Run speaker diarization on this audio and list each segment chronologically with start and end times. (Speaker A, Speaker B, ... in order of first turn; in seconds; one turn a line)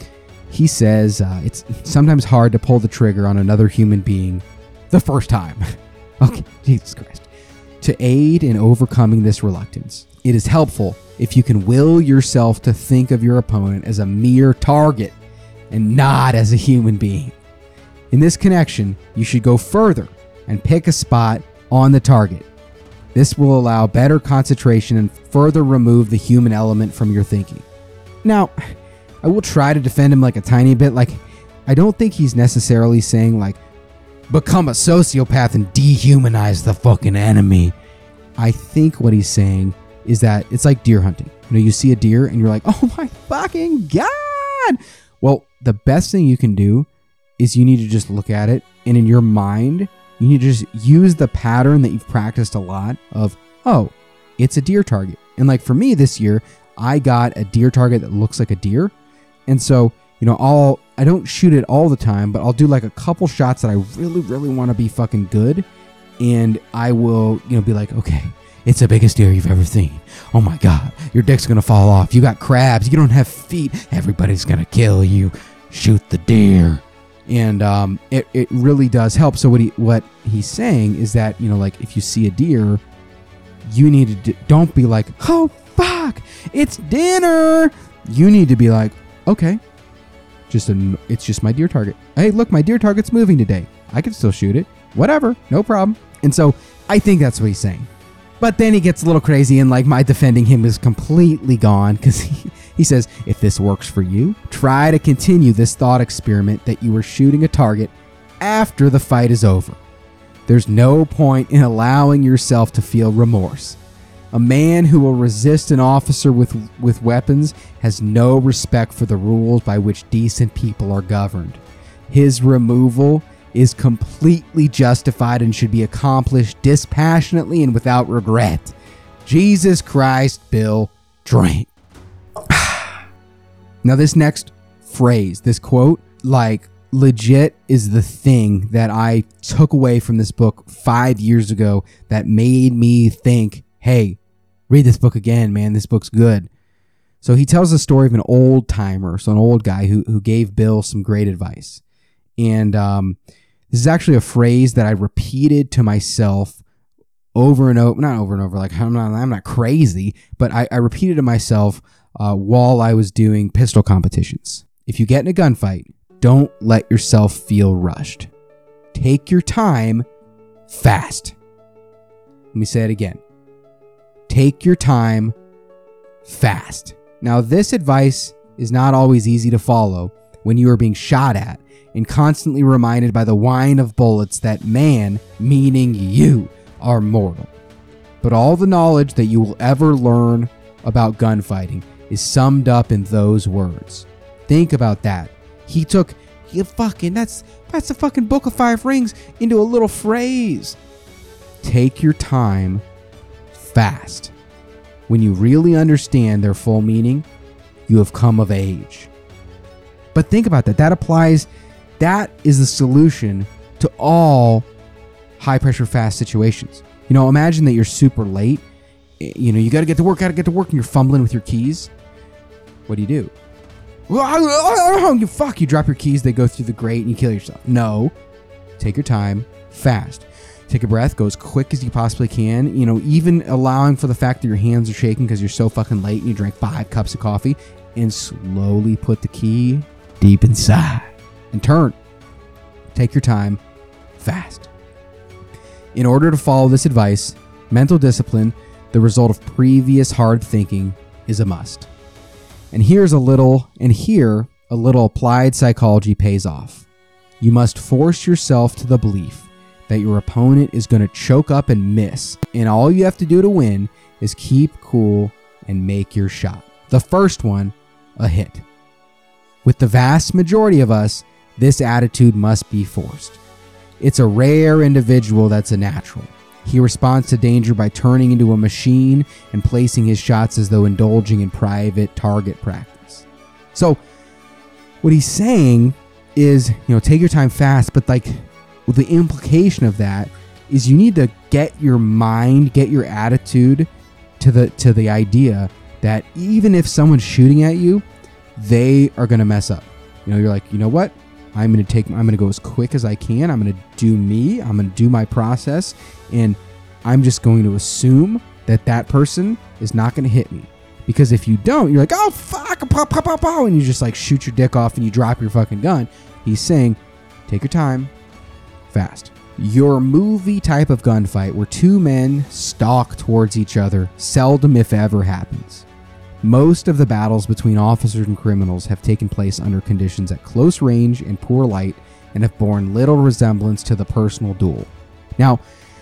Speaker A: 0.5-5.6
Speaker A: 6.2-7.3
Speaker A: 7.8-15.1
Speaker A: 15.7-17.3
Speaker A: 18.1-22.5
Speaker A: 23.1-27.6
Speaker A: 28.2-33.6
Speaker A: 34.3-37.7
Speaker A: 38.4-46.9
Speaker A: 47.4-58.9
Speaker A: 59.5-65.6
Speaker A: 66.2-82.8
Speaker A: 83.6-89.6
Speaker A: 90.5-97.9
Speaker A: 98.4-109.8
Speaker A: 110.5-113.8
Speaker A: 114.3-128.7
Speaker A: 129.2-131.7
Speaker A: 132.5-132.9
Speaker A: 133.8-146.5
Speaker A: 147.2-151.8
Speaker A: 152.4-153.2
Speaker A: 153.7-156.6
Speaker A: 157.3-168.3
Speaker A: 168.9-170.1
Speaker A: 170.7-171.3
Speaker A: 172.5-173.2
Speaker A: 174.3-175.3
Speaker A: 176.2-187.5
Speaker A: 188.2-200.8
Speaker A: 201.6-202.8
Speaker A: 203.5-204.3
Speaker A: 205.1-207.2
Speaker A: 207.9-209.1
Speaker A: 210.1-211.5
Speaker A: 212.0-214.7
Speaker A: 215.4-218.6
Speaker A: 219.2-221.9
Speaker A: 222.9-223.3
Speaker A: 224.1-228.1
Speaker A: 228.8-241.9
Speaker A: 242.9-243.6
Speaker A: 244.2-244.7
Speaker A: 245.9-251.9
Speaker A: 252.7-256.8
Speaker A: 257.4-268.6
Speaker A: 269.6-273.4
Speaker A: 274.0-284.0
Speaker A: 285.0-293.9
Speaker A: 294.4-298.0
Speaker A: 298.6-318.1
Speaker A: 318.9-325.9
Speaker A: 326.4-335.6